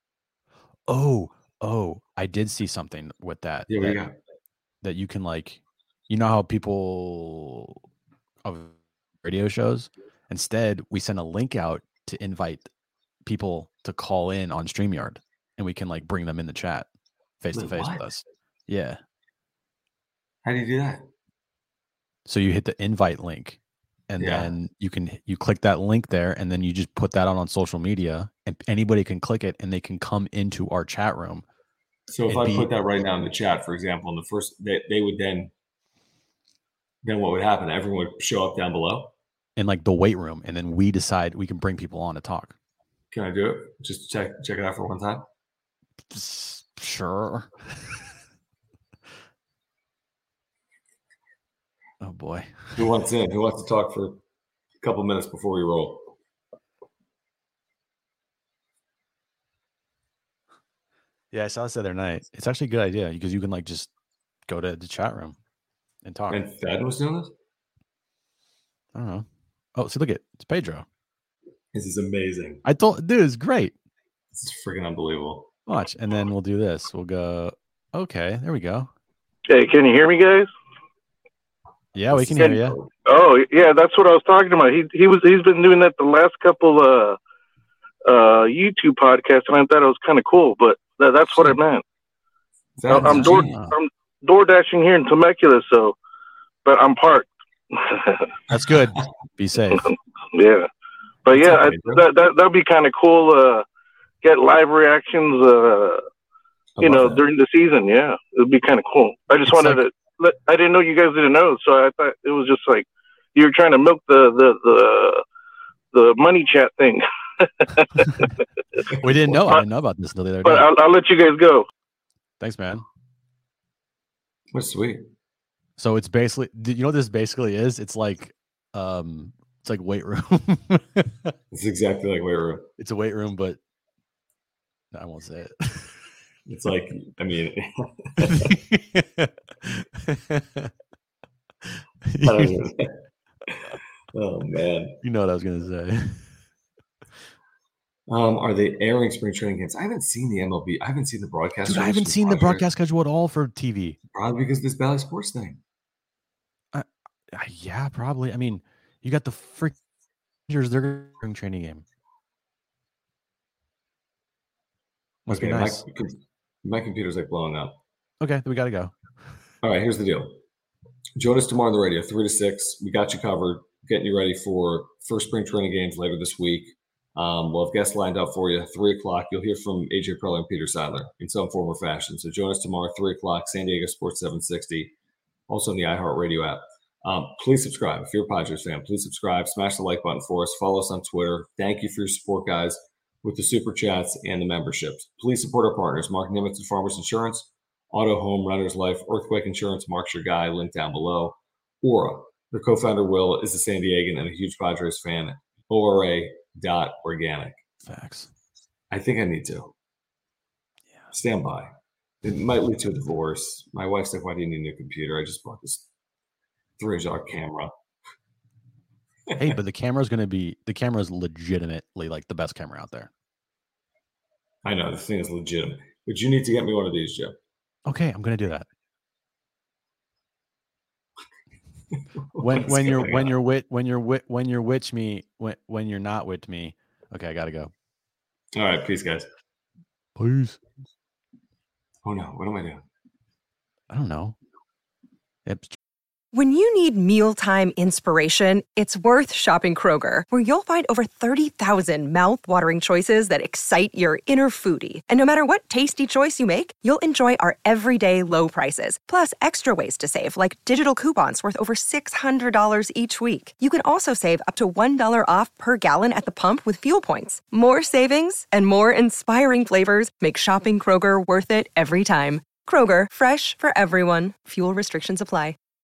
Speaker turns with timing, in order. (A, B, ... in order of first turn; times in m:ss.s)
0:00.9-0:04.0 A
0:03.7-0:04.2 B
0:04.8-0:07.8 A
0:08.4-0:12.7 A
0:13.2-0:16.9 A
0:17.4-0:19.0 A
0:17.5-0:18.0 B
0:20.4-0:21.1 B
0:22.2-0:31.4 A
0:24.2-0:24.5 B
0:32.1-0:35.5 B
0:32.3-0:32.7 A
0:37.0-0:39.1 B
0:39.6-0:42.5 A
0:43.1-0:45.3 B
0:46.1-0:47.9 A
0:52.0-0:52.8 A
0:52.8-0:54.2 B
0:54.8-0:56.1 B
1:01.3-1:03.9 A
1:04.5-1:05.4 A
1:06.0-1:06.4 A
1:06.3-1:07.3 B
1:08.9-1:10.8 A
1:11.7-1:12.6 B
1:12.6-1:13.7 A
1:14.3-1:15.5 B
1:15.7-1:18.9 A
1:19.5-1:20.5 C
1:21.9-1:22.8 A
1:22.1-1:22.9 B
1:22.2-1:27.2 C
1:28.0-1:31.8 C
1:32.8-1:33.6 B
1:32.9-1:36.0 C
1:32.9-1:33.8 A
1:36.6-1:38.3 C
1:38.5-1:39.9 A
1:40.3-1:40.7 C
1:41.2-1:43.6 C
1:41.3-1:42.0 B
1:44.2-1:46.0 C
1:46.8-1:47.2 B
1:46.8-1:55.2 C
1:49.4-1:49.8 A
1:55.9-1:59.6 C
1:59.0-2:00.6 A
2:00.4-2:01.6 C
2:02.4-2:02.8 A
2:04.5-2:05.0 B
2:05.8-2:11.3 A
2:11.5-2:12.7 B
2:12.8-2:13.6 A
2:14.9-2:16.0 A
2:16.5-2:18.6 B
2:18.2-2:20.7 A
2:22.0-2:22.6 A
2:22.2-2:25.0 B
2:25.0-2:26.3 A
2:28.1-2:32.6 B
2:31.6-2:34.0 A
2:34.1-2:35.6 B
2:36.7-2:39.8 A
2:40.5-2:41.8 A
2:45.3-2:45.8 A
2:45.3-2:47.8 B
2:48.2-2:49.0 A
2:49.6-2:50.4 B
2:51.2-3:04.9 B
3:05.5-3:27.6 B
3:27.8-3:28.3 A
3:28.9-3:29.7 B
3:31.1-3:35.9 B
3:36.8-3:37.7 B
3:39.3-3:39.6 B
3:39.4-3:43.1 A
3:44.6-3:47.4 B
3:47.8-3:48.7 A
3:51.9-3:53.4 B
3:52.4-3:57.7 A
3:58.5-3:59.2 B
4:00.2-4:00.6 A
4:02.0-4:02.8 B
4:03.9-4:04.4 A
4:05.4-4:05.8 A
4:06.3-4:35.6 D